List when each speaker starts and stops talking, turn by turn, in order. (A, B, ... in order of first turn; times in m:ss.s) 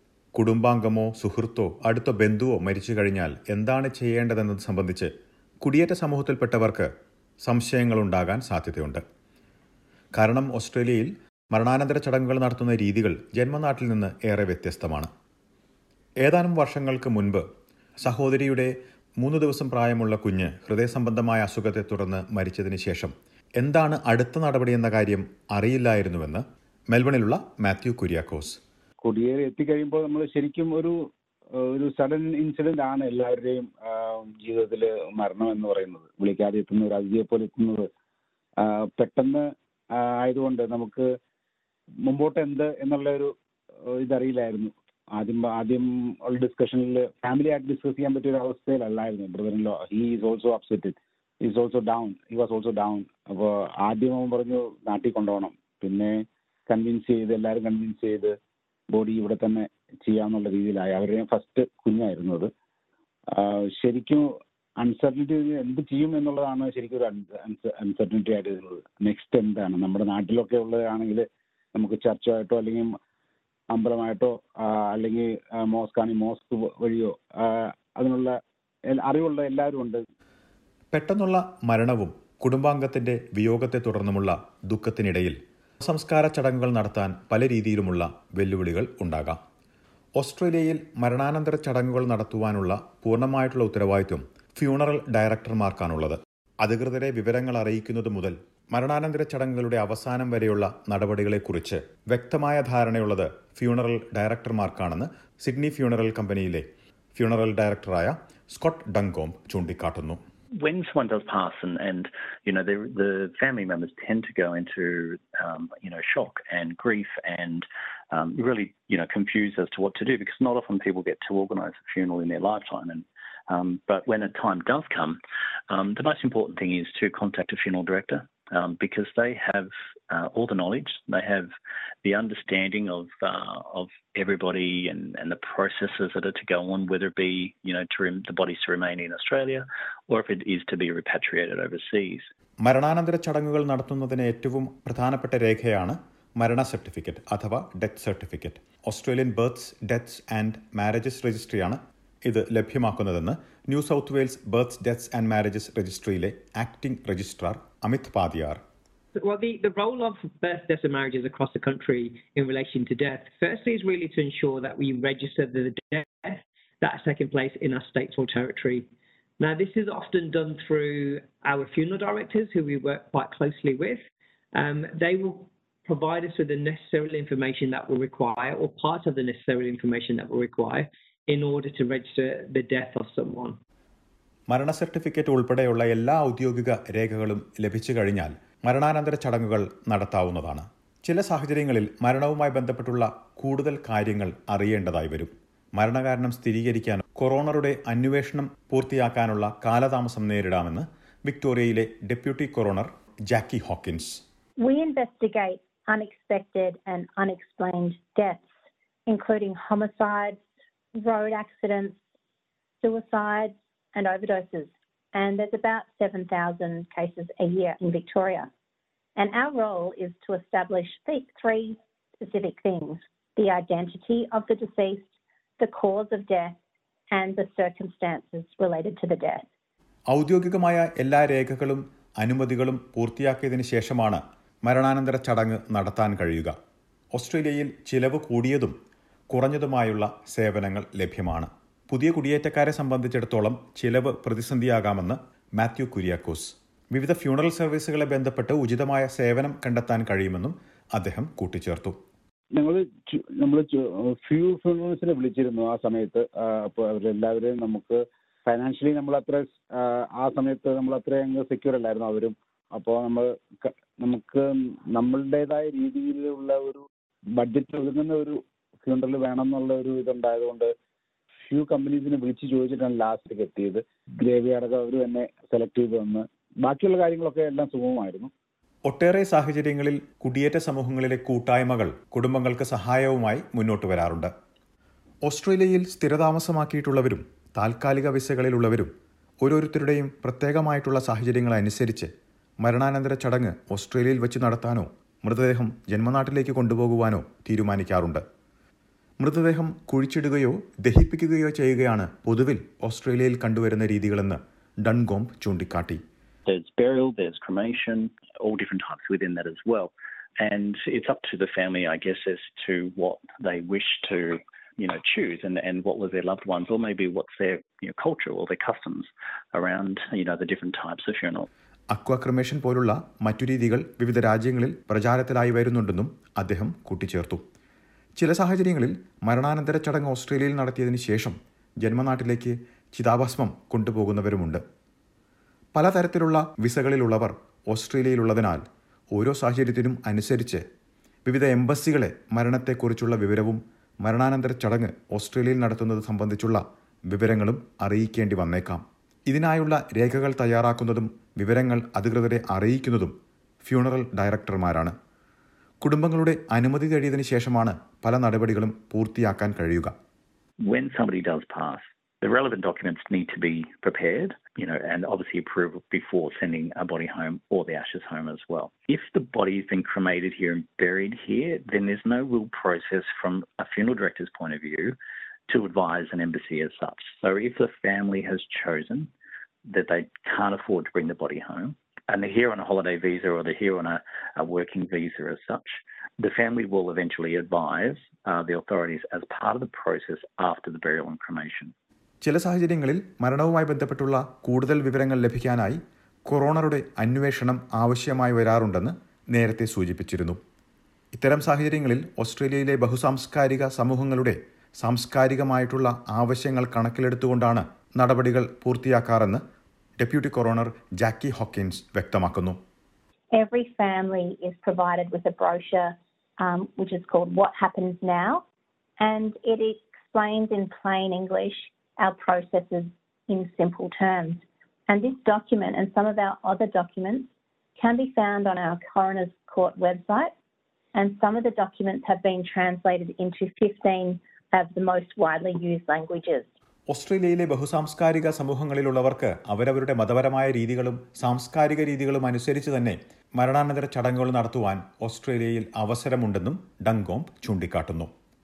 0:00.3-0:06.9 A
0:07.4-0:09.0 A
0:10.2-0:15.1 A
0:16.2-0:17.4 A
0:18.0-0:28.6 A
0:29.0-0:31.0 B
0:31.6-0:37.9 B
0:38.6-0:41.1 B
0:42.0-0:43.3 B
0:44.0-0:58.3 B
0:58.9-1:02.5 B
1:03.4-1:04.3 B
1:04.8-1:13.0 B
1:13.7-1:18.4 B
1:18.9-1:20.0 B
1:20.9-1:29.4 A
1:30.2-1:50.2 A
1:50.6-2:11.5 C
2:12.0-2:22.3 C
2:22.6-2:38.6 A
2:39.2-2:54.0 D
2:54.5-3:03.6 D
3:04.5-3:24.2 A
3:24.6-3:28.5 E
3:29.1-3:30.4 E
3:31.0-3:32.0 E
3:32.8-3:38.5 E
3:39.2-3:45.1 E
3:45.6-3:46.6 E
3:47.1-3:49.5 E
3:50.1-3:56.6 A
3:57.1-3:58.7 A
3:59.3-4:12.0 A
4:12.6-4:26.9 B
4:27.4-4:30.7 B
4:31.5-4:38.3 B
4:38.9-4:44.3 A
4:45.2-4:48.9 A
4:49.4-4:52.1 A
4:52.6-4:58.2 A
4:59.2-5:06.0 A
5:06.5-5:21.5 C
5:21.9-5:27.4 A
5:28.2-5:34.6 A
5:35.8-5:40.6 A
5:41.3-5:55.0 A
5:55.8-5:59.9 A
6:00.6-6:15.0 C
6:15.5-6:19.1 C
6:19.7-6:31.7 C
6:32.2-6:40.4 A
6:41.1-6:49.4 A
6:50.0-6:52.6 A
6:53.3-6:58.4 E
6:59.0-7:10.3 E
7:10.9-7:16.5 E
7:16.9-7:28.1 A